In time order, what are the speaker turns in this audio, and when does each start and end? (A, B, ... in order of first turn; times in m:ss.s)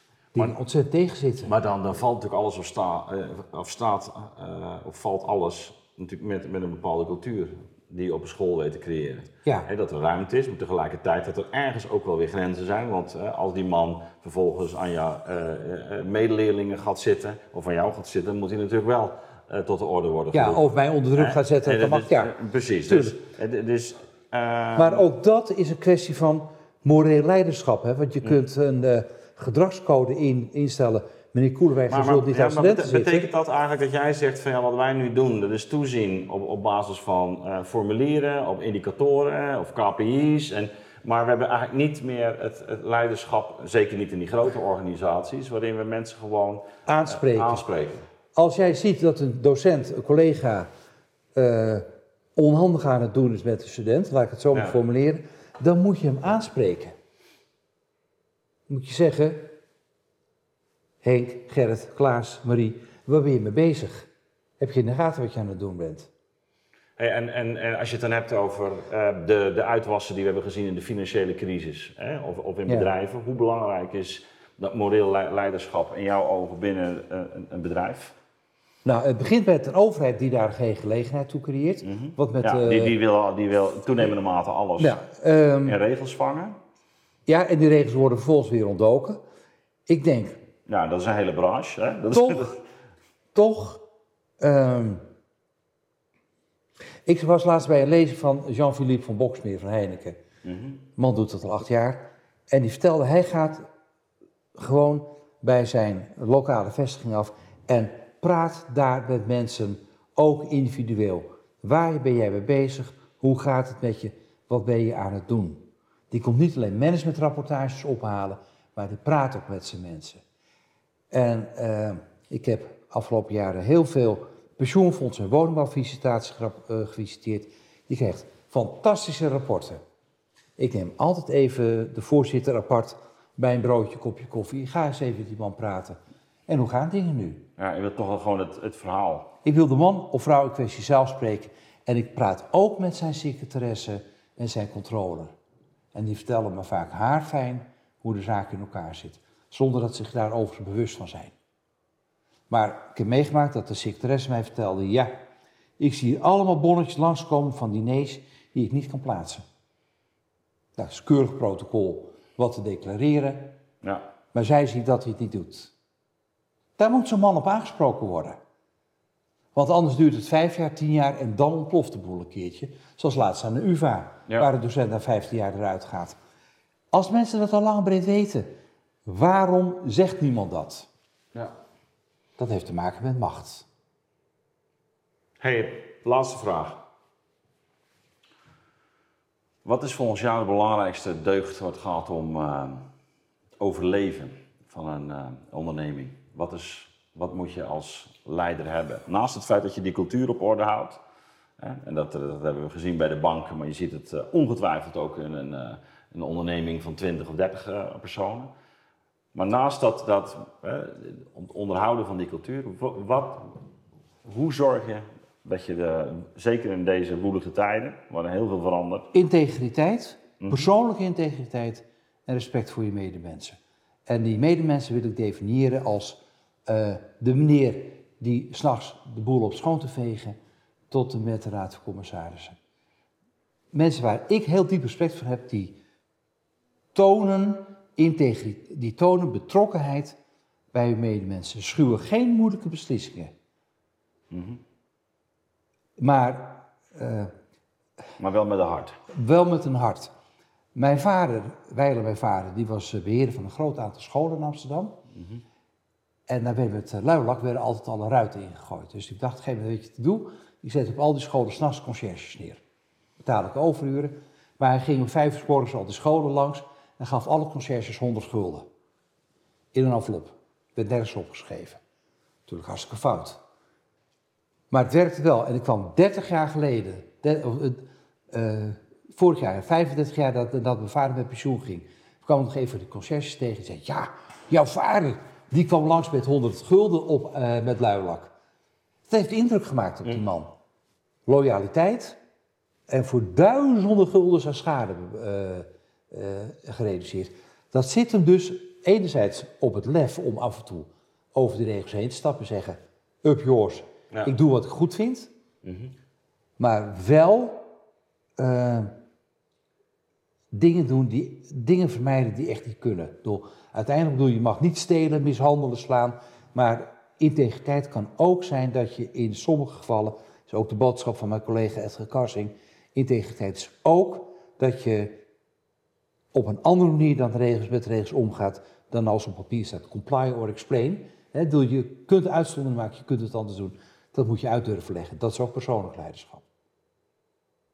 0:00.3-0:01.5 A
0:01.4-0:25.0 B
0:20.3-0:22.3 A
0:22.8-0:23.2 A
0:24.8-0:33.3 A
0:31.9-0:48.0 B
0:46.8-0:47.6 A
0:48.3-0:50.7 A
0:51.3-0:56.9 A
0:58.7-0:59.5 A
1:01.0-1:04.1 A
1:04.6-1:06.1 A
1:07.0-1:18.1 B
1:18.8-1:22.9 A
1:21.8-1:25.0 B
1:24.8-1:25.8 A
1:25.6-1:26.6 B
1:27.2-1:29.2 A
1:29.9-1:30.4 A
1:30.6-1:32.6 B
1:32.1-1:32.5 A
1:33.3-1:33.8 A
1:34.4-1:35.0 A
1:37.0-1:40.2 A
1:40.4-1:40.8 B
1:41.0-1:43.6 A
1:44.5-2:00.2 A
2:01.1-2:09.8 A
2:10.6-2:17.4 A
2:17.6-2:19.3 B
2:19.4-2:25.3 A
2:25.9-2:31.3 A
2:32.5-2:35.2 A
2:35.8-2:39.4 A
2:40.8-2:43.6 A
2:44.3-2:45.7 A
2:46.8-2:48.4 A
2:49.5-2:56.2 A
2:56.9-2:58.5 A
2:59.0-3:00.9 A
3:02.4-3:03.6 A
3:05.4-3:06.8 B
3:09.6-3:12.9 B
3:13.6-3:21.0 B
3:21.6-3:28.5 B
3:29.3-3:33.6 B
3:34.2-3:39.1 B
3:39.1-3:50.4 A
3:50.9-3:52.6 A
3:53.7-3:55.8 A
3:56.9-4:00.2 A
4:00.7-4:03.3 A
4:04.3-4:04.6 B
4:06.0-4:07.3 A
4:08.2-4:09.0 B
4:09.1-4:10.1 A
4:10.7-4:15.0 A
4:16.3-4:22.6 A
4:23.2-4:28.7 A
4:29.7-4:31.8 A
4:32.5-4:33.4 A
4:34.7-4:48.3 A
4:49.1-4:50.5 A
4:51.3-4:52.2 A
4:52.9-5:05.3 A
5:05.6-5:05.9 B
5:06.6-5:07.7 A
5:08.4-5:08.9 A
5:10.5-5:25.2 A
5:26.3-5:36.4 A